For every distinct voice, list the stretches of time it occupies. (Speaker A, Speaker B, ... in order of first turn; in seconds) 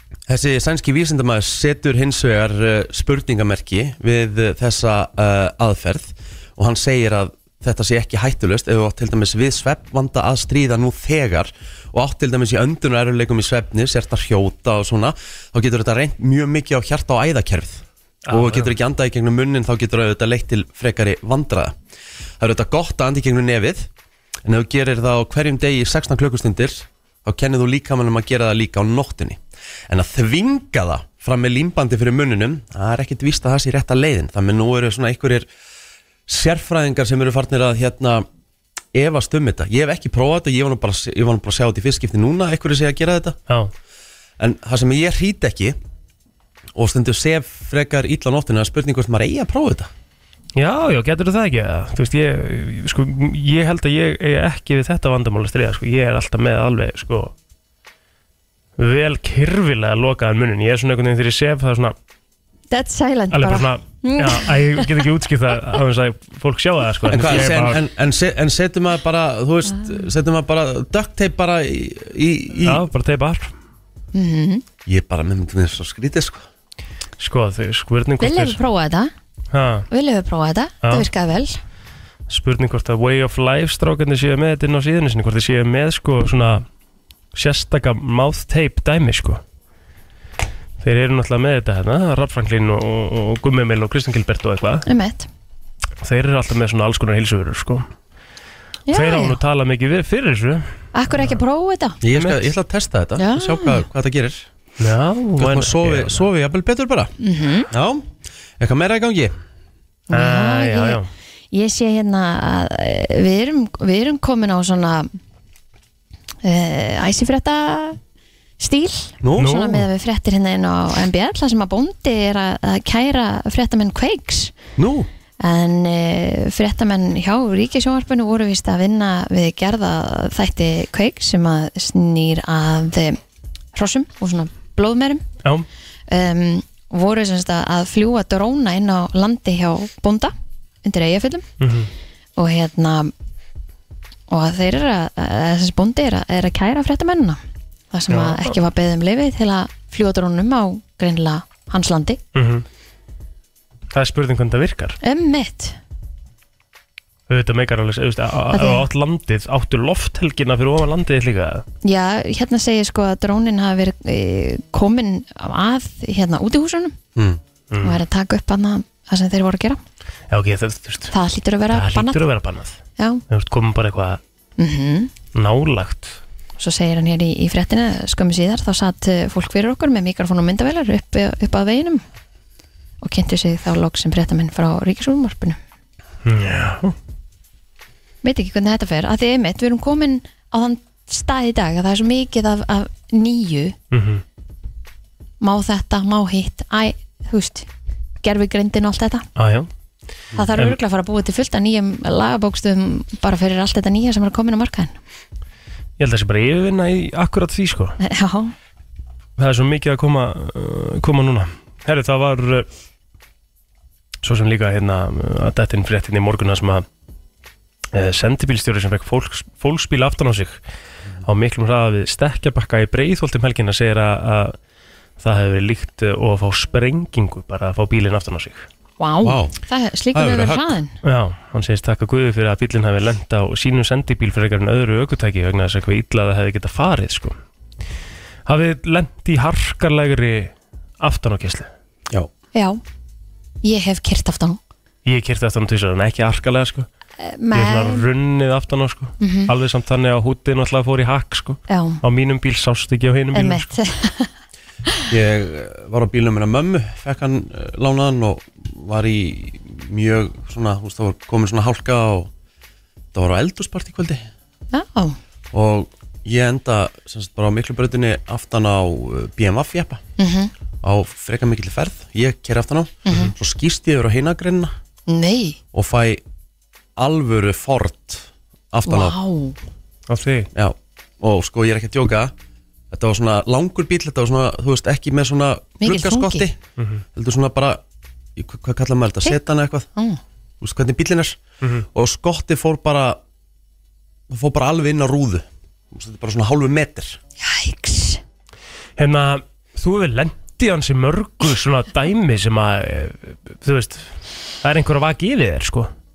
Speaker A: 0.3-21.8, 22.4-23.9, 24.4-35.5, 36.3-38.3, 38.9-43.4, 44.4-45.8, 46.8-49.9, 67.1-72.8, 74.9-76.5, 102.0-104.5, 105.4-107.1, 107.7-108.1, 108.6-109.3, 119.2-119.6, 124.8-125.1, 229.2-229.6, 230.1-230.8, 255.1-262.3, 263.1-264.2, 265.5-270.0, 270.8-274.7, 275.7-276.2, 276.9-279.1, 280.6-282.3, 282.9-286.6, 287.1-287.8, 288.4-289.9, 290.6-291.4, 291.9-293.2, 294.3-297.2
Speaker B: 18.3-18.7, 50.6-57.3, 58.8-61.9, 63.3-67.8, 72.6-73.5, 77.2-78.6, 79.5-79.9, 82.3-86.6, 87.3-89.4, 90.8-94.8, 96.0-97.9, 98.9-101.4, 102.1-102.4, 104.8-106.3, 110.1-111.1, 119.4-119.9, 141.6-141.9, 148.1-148.5, 152.3-152.6, 153.9-155.0, 157.3-161.6, 167.7-168.0, 170.3-171.1, 171.7-174.2, 175.3-176.2, 186.2-186.9, 193.9-194.2, 199.4-199.7, 206.0-207.9, 209.4-212.7, 214.2-216.8, 217.9-220.6, 221.2-224.6, 225.2-228.7, 231.0-237.4, 238.4-241.7, 245.1-246.9, 247.5-253.7, 280.1-280.5, 286.8-287.0, 299.0-304.1, 304.6-305.9
Speaker C: 62.7-65.0, 74.1-74.6, 78.2-79.1, 79.9-81.5, 94.8-95.3, 98.9-99.4, 100.9-102.0, 103.2-103.8, 107.2-107.7, 110.1-111.0, 111.5-115.1, 116.4-118.0, 118.6-124.5, 125.4-133.2, 133.8-135.2, 136.1-141.5, 142.4-143.1, 144.3-147.4, 147.9-152.2, 155.0-155.8, 158.5-158.8, 161.8-166.9, 167.8-169.8, 171.1-172.2, 174.6-175.1, 176.6-182.0, 183.0-185.6, 188.2-193.8, 195.4-197.7, 198.2-199.3, 200.3-204.9, 208.0-208.5, 229.0-230.9, 242.6-242.8, 243.6-244.6, 247.2-248.0, 249.2-249.5, 251.7-252.0, 253.3-254.3, 264.7-265.2, 270.2-270.5, 273.1-273.3, 275.1-275.6, 278.9-279.6, 285.8-286.5, 297.4-298.2